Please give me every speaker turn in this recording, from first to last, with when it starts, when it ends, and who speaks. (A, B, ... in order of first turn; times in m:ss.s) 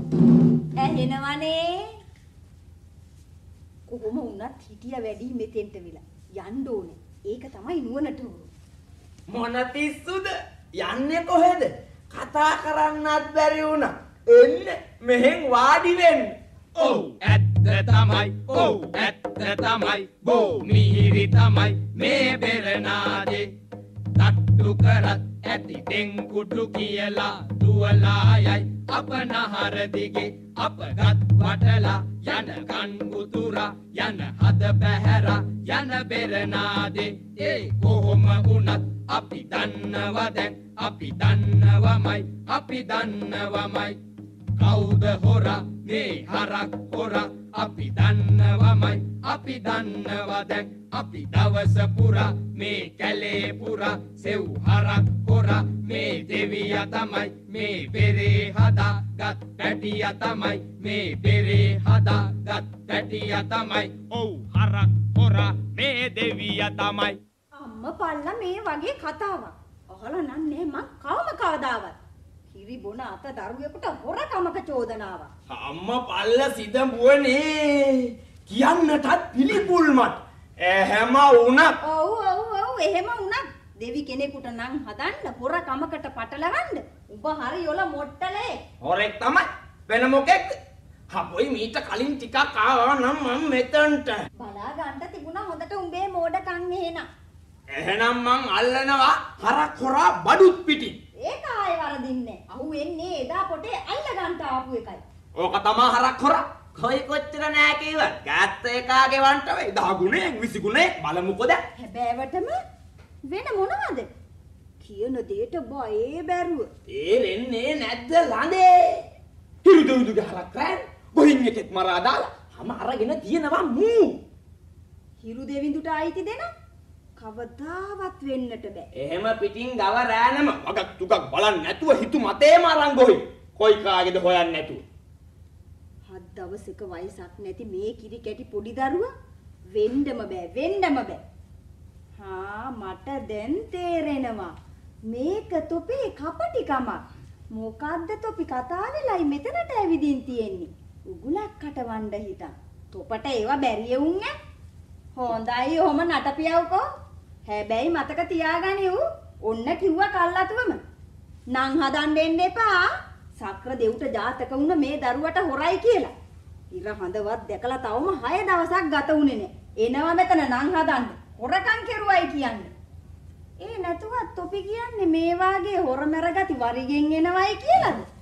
0:00.8-0:02.0 A
0:03.9-0:08.5 A
0:09.3-0:17.1 B
0:16.9-0:23.5 C
0:18.5-0:18.9 B
0:24.2-0:44.0 C
0:44.6-1:07.2 C
1:07.6-1:12.0 A
1:12.5-1:15.3 A
1:15.5-1:21.8 B
1:21.8-1:28.6 A
1:28.8-1:30.6 B
1:31.1-1:34.2 B
1:34.4-1:37.1 A
1:37.7-1:41.0 B
1:41.2-1:45.0 A
1:45.4-1:51.6 B
1:51.8-1:52.6 A
1:53.3-1:54.1 A
1:54.8-1:56.7 A
1:56.9-1:59.0 B
1:59.6-2:04.2 B
2:05.2-2:06.5 A
2:07.2-2:08.9 A
2:09.0-2:14.8 B
2:16.1-2:19.1 A
2:19.7-2:21.2 A
2:22.2-2:24.6 A
2:25.1-2:34.3 A
2:35.2-2:36.8 A
2:37.5-2:40.8 A
2:41.5-2:46.1 A
2:46.7-2:52.7 A
2:53.6-2:58.1 A